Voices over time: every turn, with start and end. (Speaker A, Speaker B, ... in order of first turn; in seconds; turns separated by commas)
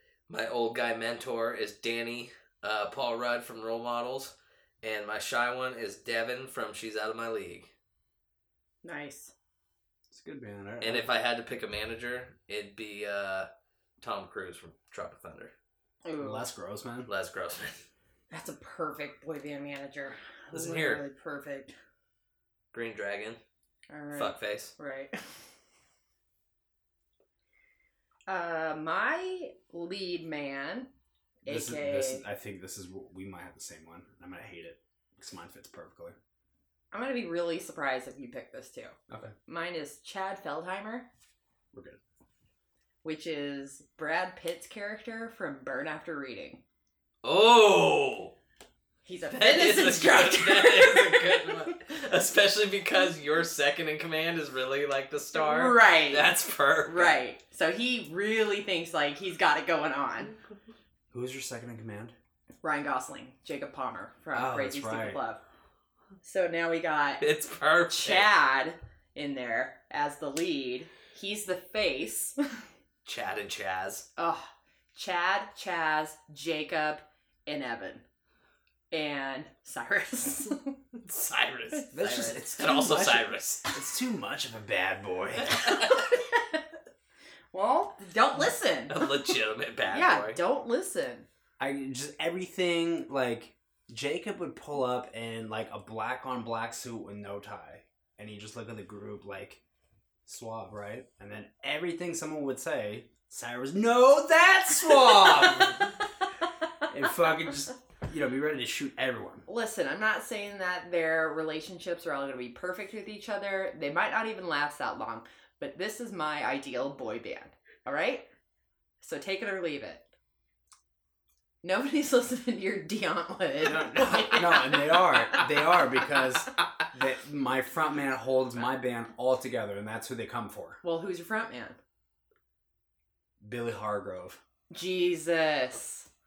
Speaker A: 0.3-7.7, Speaker B: 8.8-9.3, Speaker C: 10.1-11.1, Speaker A: 10.8-13.5, Speaker A: 14.0-15.5, Speaker B: 16.0-16.4, Speaker C: 16.2-17.1, Speaker A: 17.1-17.8, Speaker B: 18.3-21.7, Speaker A: 20.5-21.0, Speaker A: 22.7-23.4, Speaker B: 23.9-25.2, Speaker A: 24.1-24.7, Speaker B: 28.3-30.9, Speaker C: 31.4-36.2, Speaker B: 31.4-32.2, Speaker B: 36.9-39.0, Speaker C: 39.1-39.3, Speaker B: 39.5-41.1, Speaker C: 41.7-42.0, Speaker B: 43.0-46.6, Speaker A: 47.2-48.3, Speaker B: 49.0-51.8, Speaker A: 49.3-57.2, Speaker B: 55.3-56.3, Speaker B: 56.8-60.3, Speaker C: 61.1-62.1, Speaker B: 62.6-65.4, Speaker C: 64.3-65.2, Speaker B: 66.2-67.2, Speaker A: 67.2-68.3, Speaker B: 67.9-72.4, Speaker A: 73.0-74.1, Speaker B: 74.2-78.0, Speaker B: 78.9-80.8, Speaker A: 81.0-83.6, Speaker B: 81.7-82.4, Speaker C: 81.9-85.8, Speaker B: 85.7-86.6, Speaker B: 87.5-89.1, Speaker A: 88.9-90.4, Speaker B: 89.9-91.3, Speaker C: 91.6-99.6, Speaker C: 100.2-105.9, Speaker C: 106.9-109.4, Speaker B: 109.5-118.3, Speaker B: 119.0-120.1, Speaker B: 121.6-125.4, Speaker C: 123.6-130.8, Speaker B: 130.8-131.8, Speaker C: 133.4-134.4, Speaker B: 134.7-136.1